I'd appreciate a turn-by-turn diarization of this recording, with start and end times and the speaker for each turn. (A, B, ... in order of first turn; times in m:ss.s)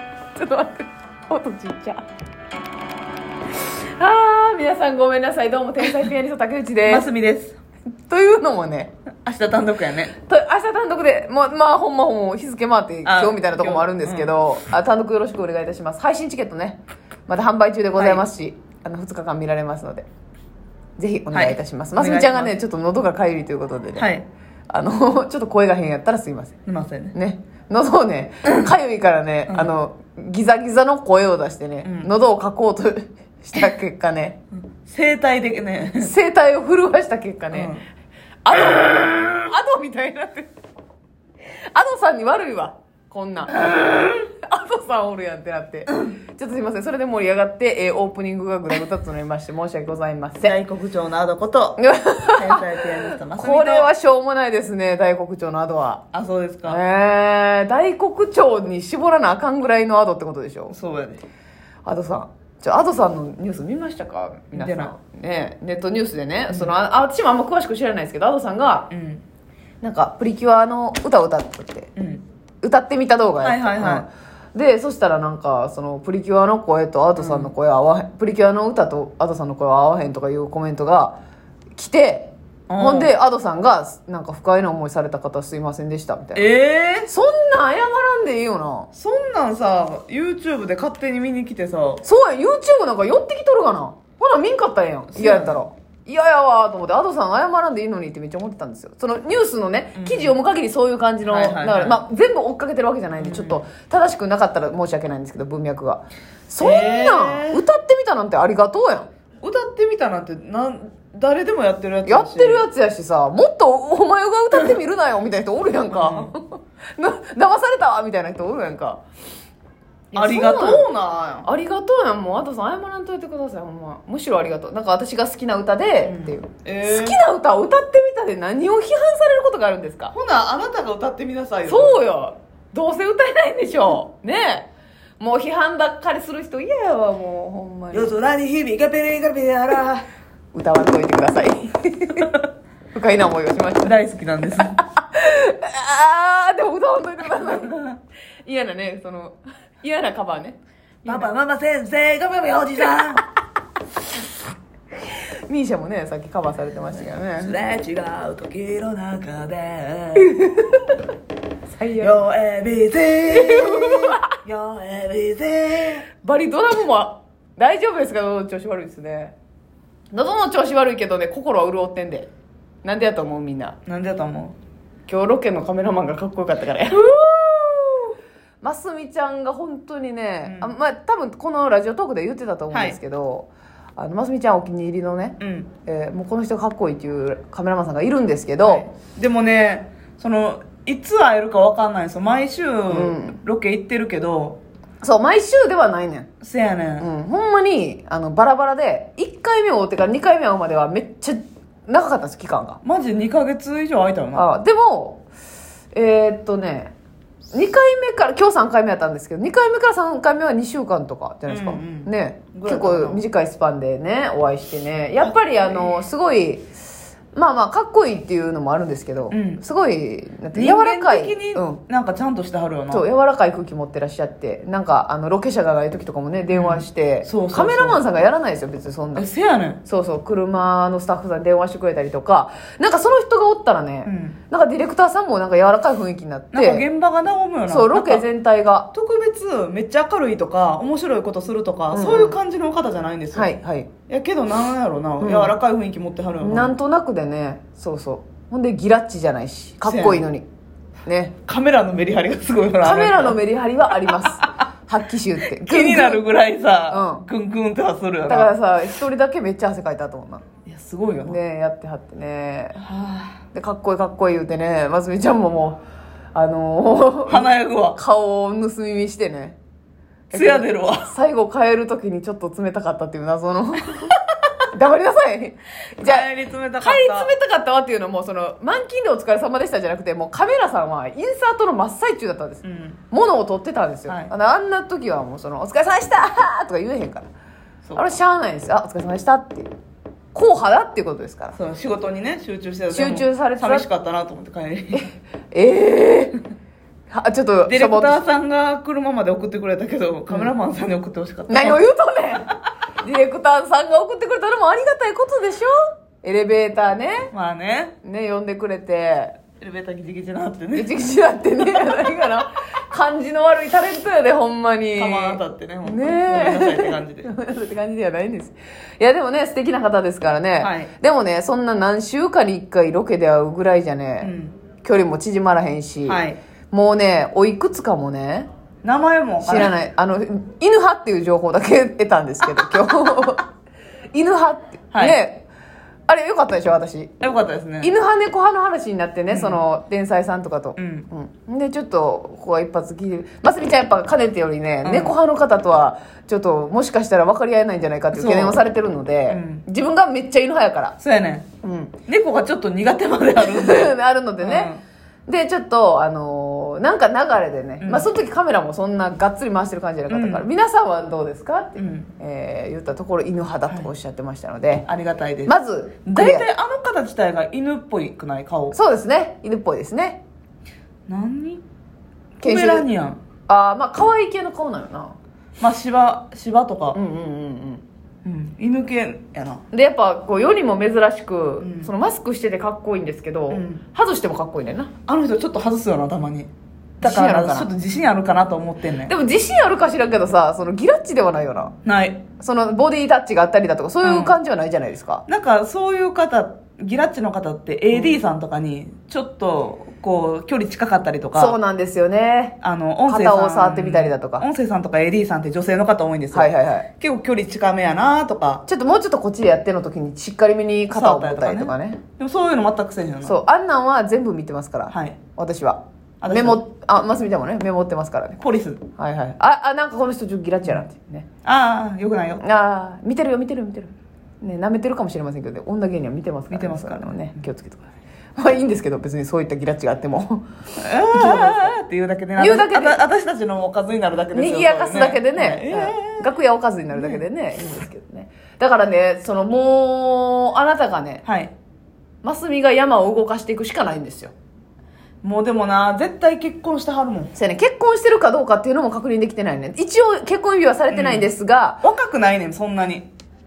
0:00.4-0:02.0 A
0:03.7-0:07.1 A
0:06.8-0:07.6 B
0:08.1-0:08.9 A
0:09.2-0:10.1 B
0:10.2-0:20.1 A
0:13.0-0:14.3 B
0:18.0-0:18.2 B
0:21.0-0:24.1 A
0:21.3-0:22.6 B
0:24.0-0:24.3 B
0:24.7-0:26.6 A
0:26.7-0:27.1 B
0:27.1-0:34.4 A
0:31.8-0:32.1 B
0:34.8-0:36.1 B
0:36.0-0:37.8 A
0:37.5-0:37.8 B
0:38.4-0:40.5 A
0:41.7-0:50.6 A
0:50.4-0:51.8 B
0:51.8-0:52.8 A
0:52.3-0:53.9 B
0:53.4-0:56.0 A
0:56.1-0:56.8 B
0:56.7-1:00.8 A
1:00.7-1:01.2 B
1:01.9-1:08.9 A
1:04.5-1:04.9 B
1:06.5-1:06.7 B
1:08.9-1:09.2 B
1:09.8-1:11.9 A
1:12.0-1:12.2 B
1:12.6-1:21.2 A
1:13.4-1:14.1 B
1:17.2-1:17.5 B
1:21.8-1:26.4 A
1:22.7-1:23.1 B
1:26.4-1:27.1 B
1:27.1-1:28.9 A
1:28.9-1:32.0 B
1:32.0-1:49.1 A
1:35.1-1:35.6 B
1:40.0-1:40.4 B
1:41.2-1:42.0 B
1:43.2-1:43.7 B
1:46.6-1:47.6 B
1:49.4-1:52.7 B
1:52.1-1:59.0 A
1:55.9-1:56.3 B
2:00.1-2:00.9 A
2:00.1-2:01.5 B
2:01.4-2:10.2 A
2:06.0-2:07.2 B
2:10.1-2:12.0 B
2:11.6-2:14.7 A
2:15.2-2:18.2 A
2:17.9-2:20.1 B
2:20.5-2:22.3 A
2:22.9-2:24.0 A
2:23.8-2:24.8 B
2:24.5-2:27.8 A
2:27.5-2:27.9 B
2:28.4-2:31.3 A
2:31.0-2:33.2 B
2:35.5-2:37.6 A
2:37.4-2:40.4 B
2:40.3-2:40.8 A
2:41.7-2:42.2 A
2:42.0-2:46.0 B
2:43.4-2:44.2 A
2:46.1-2:49.3 A
2:50.1-2:52.3 A
2:52.8-2:53.8 A
2:53.9-2:54.6 B
2:55.1-2:57.3 A
2:58.6-3:08.9 A
3:00.4-3:00.7 B
3:02.7-3:03.0 B
3:05.4-3:05.7 B
3:08.6-3:14.6 B
3:12.9-3:13.4 A
3:15.0-3:16.3 A
3:16.4-3:17.1 B
3:17.0-3:22.8 A
3:22.8-3:24.5 B
3:24.4-3:25.2 A
3:25.9-3:26.9 A
3:27.5-3:36.7 A
3:31.5-3:33.2 B
3:35.2-3:36.0 B
3:37.3-3:41.8 A
3:39.3-3:39.6 B
3:40.5-3:43.0 B
3:42.9-3:49.3 A
3:46.5-3:48.0 B
3:49.2-3:49.8 B
3:49.8-3:56.8 A
3:54.1-3:54.4 B
3:56.5-3:58.2 B
3:57.7-3:58.9 A
3:58.9-4:03.6 B
4:01.9-4:02.4 A
4:03.3-4:03.9 A
4:04.1-4:06.8 B
4:05.2-4:05.6 A
4:06.4-4:10.5 A
4:09.9-4:10.3 B
4:11.1-4:11.4 A
4:11.5-4:13.4 B
4:12.8-4:16.2 A
4:14.0-4:14.3 B
4:15.6-4:18.5 B
4:16.9-4:17.2 A
4:18.3-4:20.5 A
4:20.6-4:21.4 B
4:21.3-4:22.8 A
4:22.8-4:23.4 B
4:23.5-4:25.8 A
4:26.3-4:29.6 A
4:27.3-4:28.0 B
4:30.3-4:31.1 B
4:30.3-4:36.3 A
4:36.0-4:37.3 B
4:36.8-4:47.3 A
4:42.6-4:43.0 B
4:48.0-4:49.7 A
4:50.3-4:51.6 A
4:51.6-4:55.1 B
4:52.9-4:53.9 A
4:54.9-4:56.4 A
4:57.1-4:58.2 A
4:57.7-5:01.8 B
5:01.5-5:07.3 A
5:07.3-5:07.9 B
5:08.0-5:09.4 A
5:09.6-5:10.9 B
5:10.8-5:28.5 A
5:15.0-5:17.3 B
5:20.6-5:20.9 B
5:24.2-5:24.6 B
5:26.1-5:26.4 B
5:28.8-5:29.7 B
5:29.4-5:33.5 A
5:34.1-5:35.5 A
5:34.9-5:35.2 B
5:36.1-5:37.1 A
5:37.2-5:37.9 B
5:37.8-5:51.0 A
5:39.3-5:39.6 B
5:40.8-5:41.1 B
5:44.8-5:45.2 B
5:48.1-5:48.6 B
5:49.3-5:49.6 B
5:51.0-5:51.5 B
5:51.6-5:51.9 A
5:52.1-5:54.8 B
5:53.4-5:54.7 A
5:55.3-6:04.9 A
5:57.8-5:58.1 B
6:00.1-6:00.5 B
6:01.8-6:02.1 B
6:04.9-6:05.6 B
6:05.5-6:06.5 A
6:06.1-6:08.8 B
6:08.7-6:10.2 A
6:11.1-6:11.6 B
6:12.4-6:13.2 B
6:12.4-6:12.9 A
6:13.5-6:15.2 A
6:15.6-6:17.0 B
6:16.9-6:17.8 A
6:18.2-6:19.6 B
6:19.7-6:24.9 A
6:21.6-6:21.9 B
6:23.5-6:23.8 B
6:25.1-6:26.5 B
6:27.0-6:27.7 A
6:27.0-6:29.1 B
6:29.1-6:31.8 A
6:31.8-6:32.2 B
6:32.4-6:35.2 A
6:34.0-6:34.4 B
6:35.3-6:41.6 B
6:41.4-6:42.6 A
6:42.6-6:48.6 B
6:43.1-6:44.5 A
6:46.3-6:46.9 A
6:48.7-6:52.0 A
6:50.9-6:53.4 B
6:53.2-6:58.4 A
6:54.9-6:55.2 B
6:56.2-6:56.6 B
6:58.4-6:58.8 B
6:59.0-7:01.3 A
7:01.4-7:02.4 B
7:02.4-7:10.5 A
7:06.5-7:07.2 B
7:10.8-7:16.3 B
7:11.1-7:11.7 A
7:12.4-7:13.0 A
7:14.3-7:21.2 A
7:16.9-7:17.2 B
7:21.2-7:21.5 B
7:22.2-7:24.3 A
7:25.2-7:27.3 B
7:27.4-7:31.8 A
7:30.9-7:31.3 B
7:31.8-7:33.1 B